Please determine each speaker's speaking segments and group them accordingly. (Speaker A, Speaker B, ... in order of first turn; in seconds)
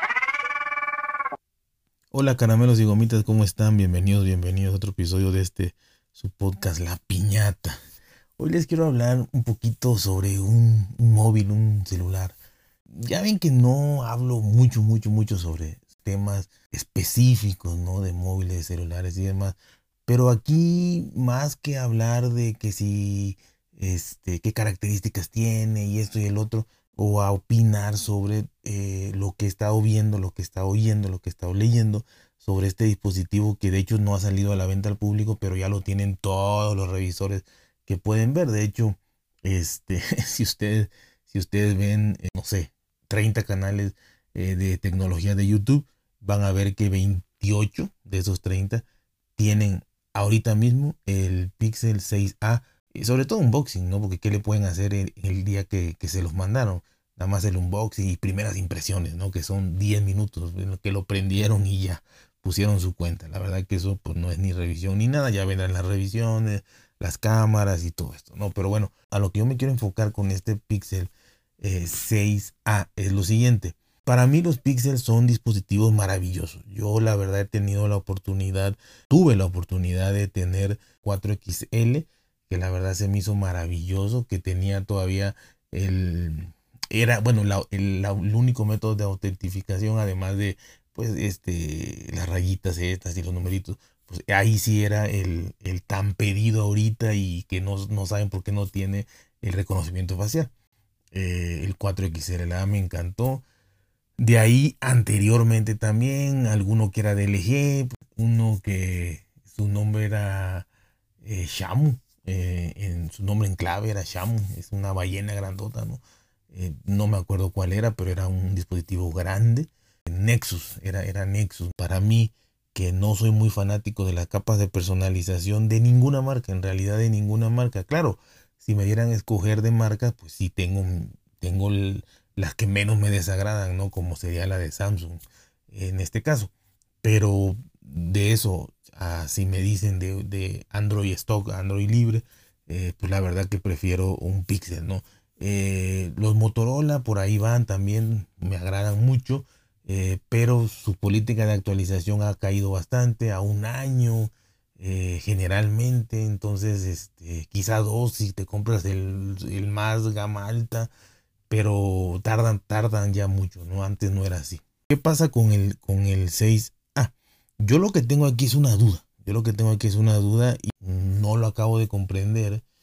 Speaker A: 2.1-7.8, 8.4-12.4, 12.9-48.9, 49.4-100.5, 101.1-103.4, 104.2-110.7, 111.2-160.9, 161.5-172.6